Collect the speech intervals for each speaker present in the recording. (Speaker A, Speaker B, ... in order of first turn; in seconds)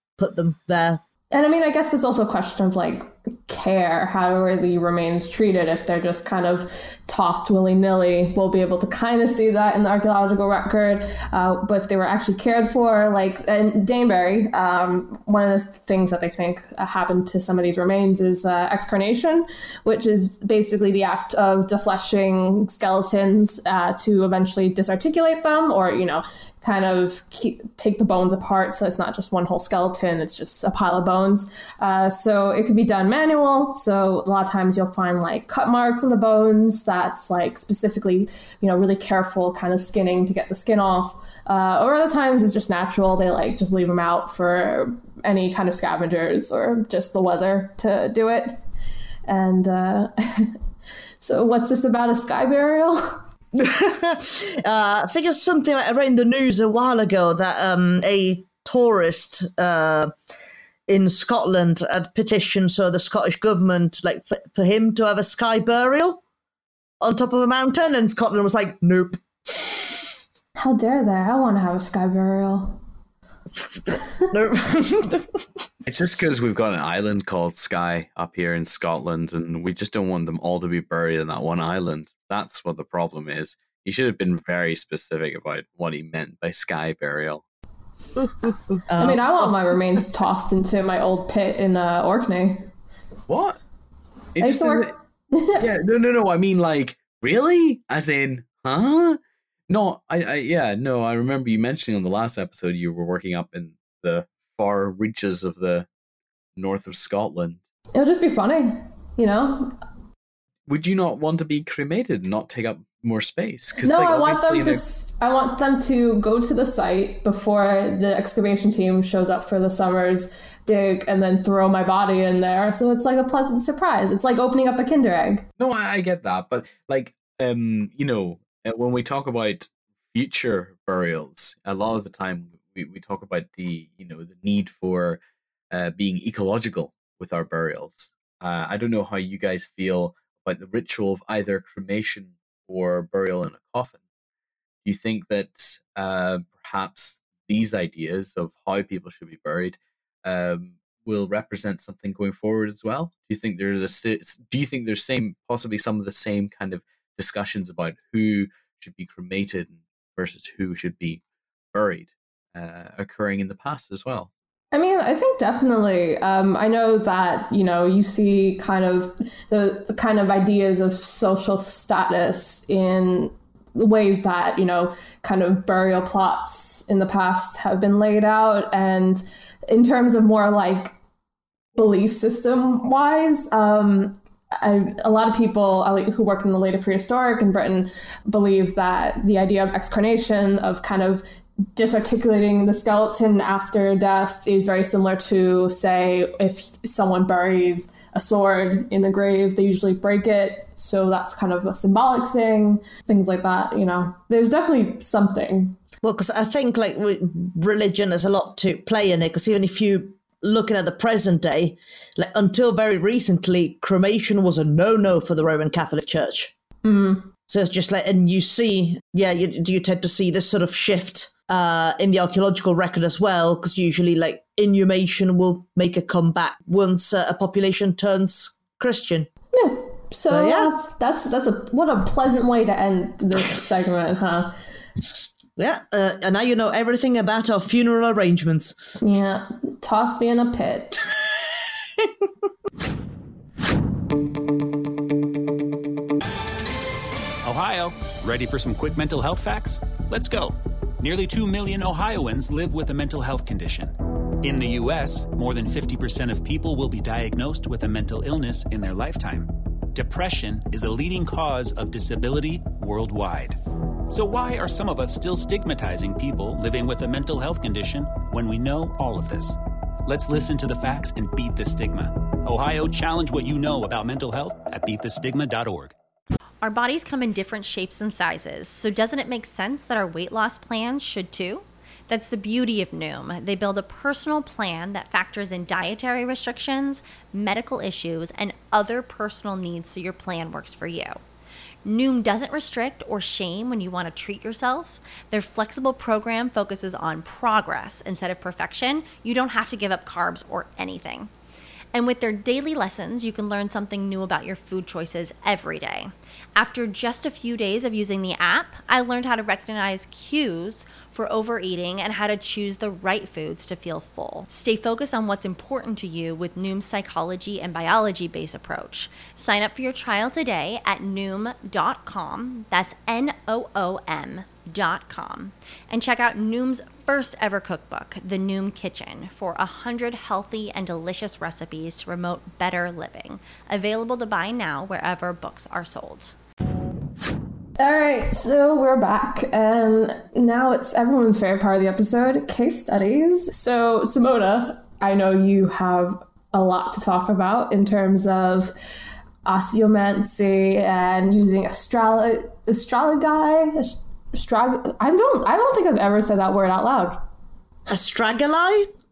Speaker A: 0.2-1.0, 53.5-60.1, 60.9-66.2, 67.0-70.1, 74.3-75.4, 88.9-89.2, 206.0-216.5, 217.5-229.3, 230.3-230.7, 235.6-238.8, 357.9-358.9
Speaker B: 1.3-48.6, 49.3-50.6, 51.2-53.2, 70.6-72.8, 89.0-92.7, 94.4-95.6, 107.9-109.7, 113.8-125.4, 164.7-180.9, 181.8-191.2, 191.8-205.8, 216.8-217.3, 229.5-234.5, 239.0-241.0, 337.8-348.7, 349.4-357.2
Speaker C: 75.9-87.4, 93.3-93.6, 94.4-94.9, 95.6-105.9, 106.6-107.6, 110.7-114.8, 125.6-144.0, 144.8-161.2, 161.7-164.3
Speaker D: 247.4-263.6, 264.1-275.9
Speaker E: 276.6-291.2, 291.8-301.3, 301.9-336.4